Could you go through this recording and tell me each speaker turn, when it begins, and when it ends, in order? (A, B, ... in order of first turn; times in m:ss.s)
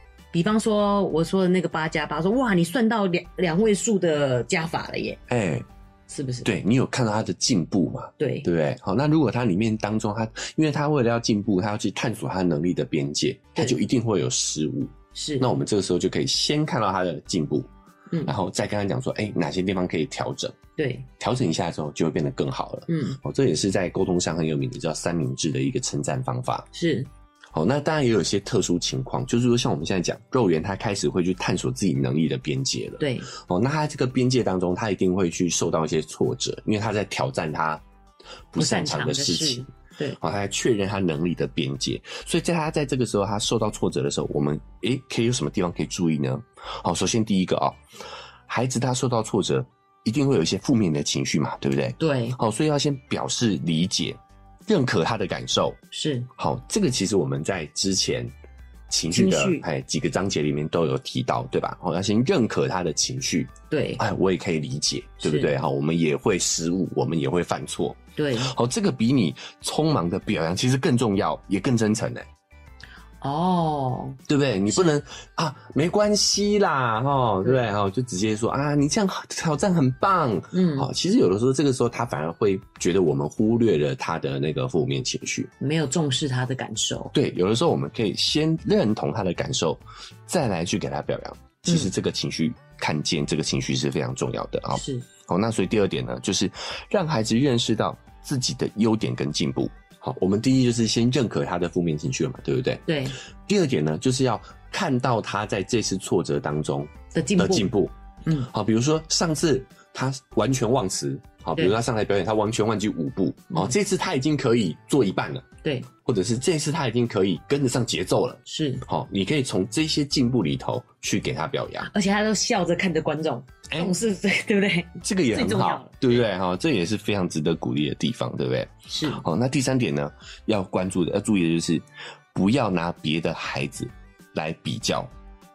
0:00.3-0:05.2 A
0:05.3-0:05.6 B
0:06.1-0:06.5 A
0:06.4-0:17.7 B
0:08.2-0:08.5 A
0:15.1-0:15.5 A
0:18.2-0:20.6 B
0:20.8-0:21.1 A
0:21.2-0:26.7 B
0:22.9-0:23.2 A
0:26.7-0:27.1 A
0:27.5-0:37.8 B
0:33.0-0:33.3 A
0:38.5-0:39.6 B
0:38.6-0:40.2 A
0:40.2-0:47.8 B
0:48.5-0:55.8 B
0:52.0-0:52.4 A
0:55.9-0:56.3 A
0:56.4-0:58.3 B
0:58.9-1:12.3 B
0:59.1-0:59.6 A
1:03.7-1:04.0 A
1:05.2-1:05.6 A
1:08.2-1:08.5 A
1:13.2-1:14.2 A
1:14.3-1:25.5 B
1:20.5-1:20.9 A
1:25.6-1:27.1 A
1:27.1-1:42.8 B
1:34.7-1:35.0 A
1:42.8-1:43.2 A
1:43.4-1:47.9 B
1:47.1-1:47.7 A
1:48.2-1:48.5 A
1:48.5-1:55.4 B
1:55.6-1:55.9 A
1:56.0-2:01.9 B
1:58.4-1:58.8 A
2:01.8-2:06.2 A
2:05.0-2:15.1 B
2:08.9-2:09.2 A